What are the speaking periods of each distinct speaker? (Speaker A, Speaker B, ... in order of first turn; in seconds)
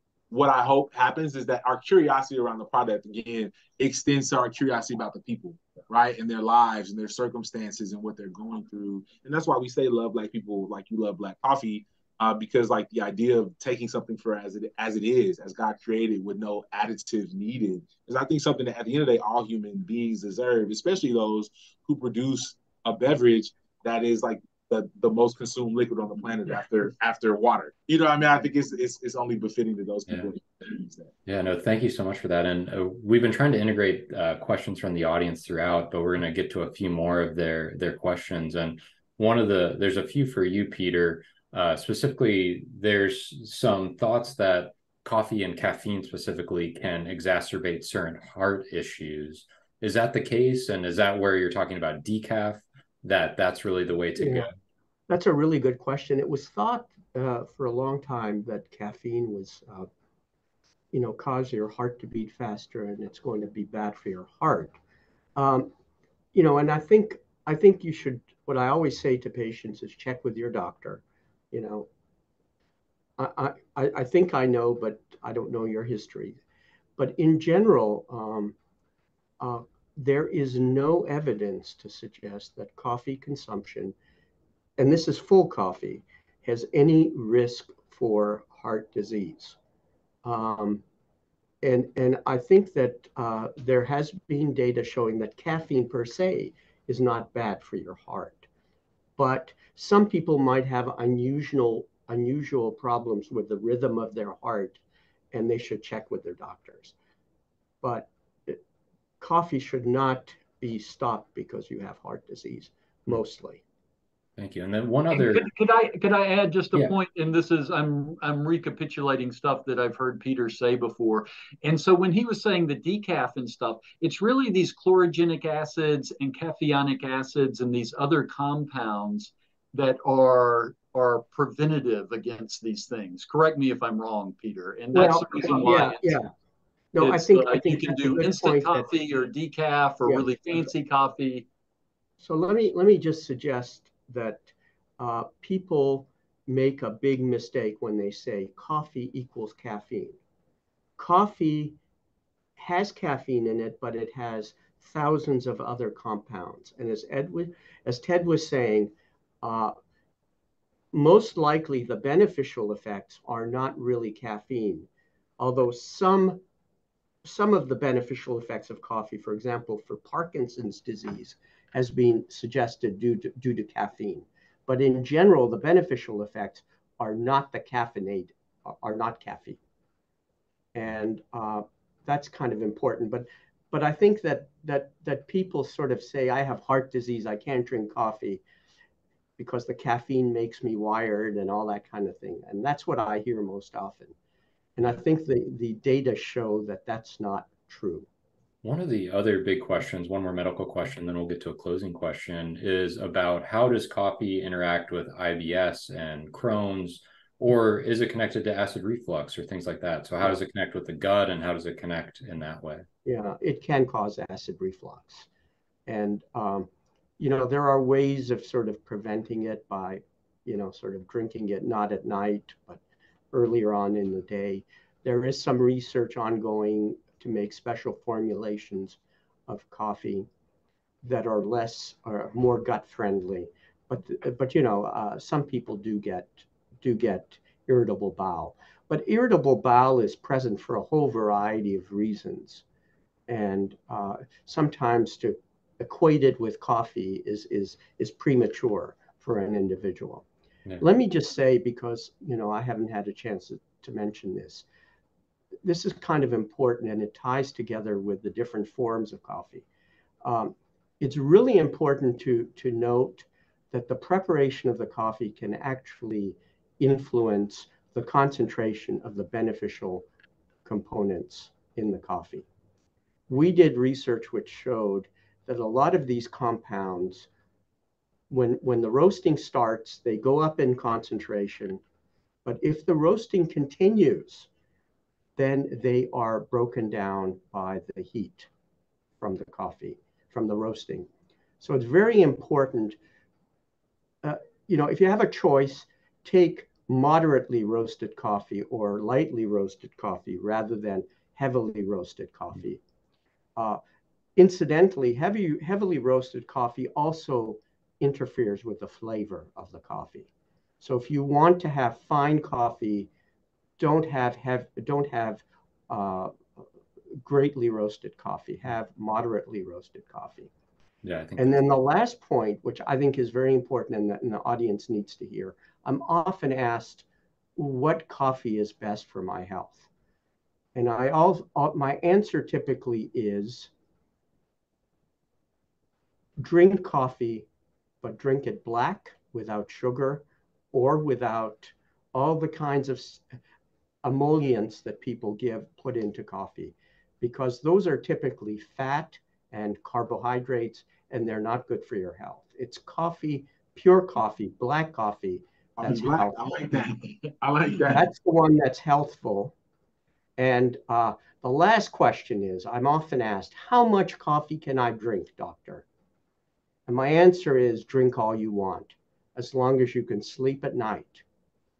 Speaker A: 0.3-31.1, 355.8-358.1
Speaker B: 31.3-54.5, 114.4-115.5, 198.6-212.9, 321.0-321.8
Speaker C: 54.2-54.5, 55.1-59.9, 60.9-64.8, 65.4-65.7, 66.3-71.9, 73.2-76.4, 77.0-78.5, 79.4-84.0, 84.8-89.6, 90.2-90.8, 91.6-98.5, 99.2-104.8, 105.3-106.9, 107.8-108.6, 109.2-113.6, 134.9-136.3, 136.9-138.9, 142.2-150.2, 151.0-151.8, 152.6-159.8, 160.9-164.9, 165.4-166.4, 167.2-179.6, 180.7-188.4, 189.4-194.2, 194.8-198.1, 213.1-215.3, 215.9-222.8, 223.3-230.3, 231.0-242.6, 243.3-250.2, 250.8-254.7, 255.6-259.6, 260.2-270.1, 270.6-272.4, 273.3-277.3, 278.3-281.8, 282.4-284.5, 285.4-288.5, 289.2-291.1, 291.6-293.0, 294.2-302.8, 304.4-310.3, 310.8-313.1, 313.8-316.4, 317.2-320.5, 321.4-327.1, 327.6-329.9, 330.8-333.7, 336.4-337.5, 338.0-343.2, 344.0-356.5, 357.9-359.5, 360.4-365.8, 366.9-371.2
Speaker D: 115.1-136.2, 137.0-141.5